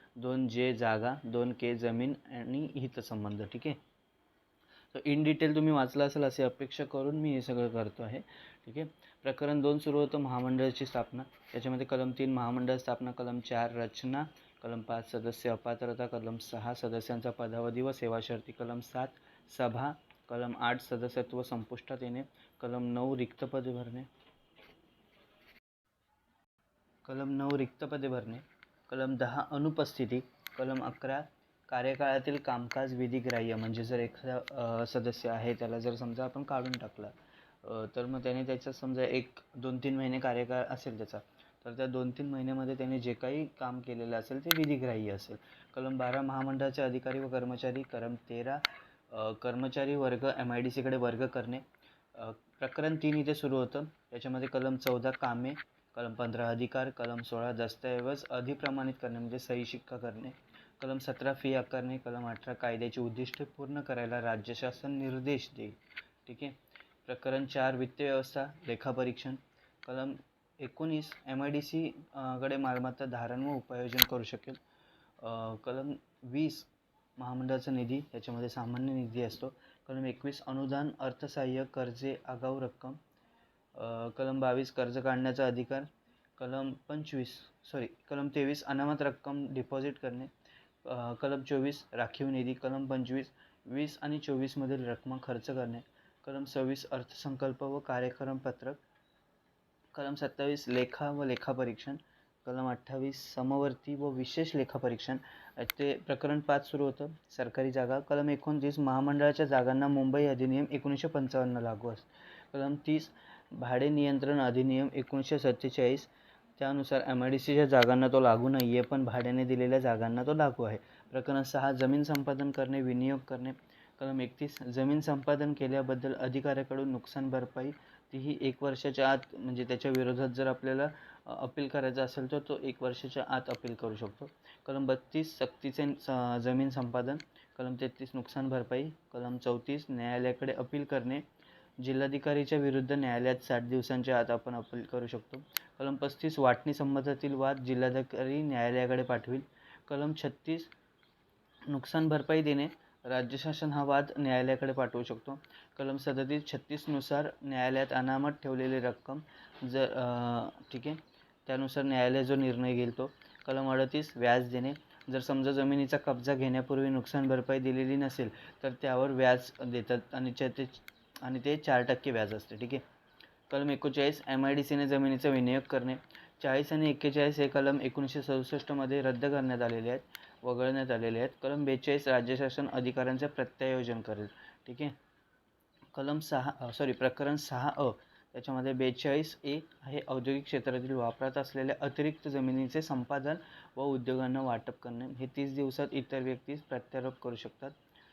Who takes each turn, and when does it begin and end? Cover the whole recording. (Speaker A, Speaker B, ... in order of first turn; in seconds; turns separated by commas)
Speaker A: 0.2-3.8, Speaker A: 4.9-24.1, Speaker A: 27.1-74.6, Speaker A: 75.2-83.0, Speaker A: 83.7-90.3, Speaker A: 90.8-98.8, Speaker A: 99.9-141.2, Speaker A: 141.8-150.7, Speaker A: 151.7-172.8, Speaker A: 173.5-184.9, Speaker A: 185.9-197.8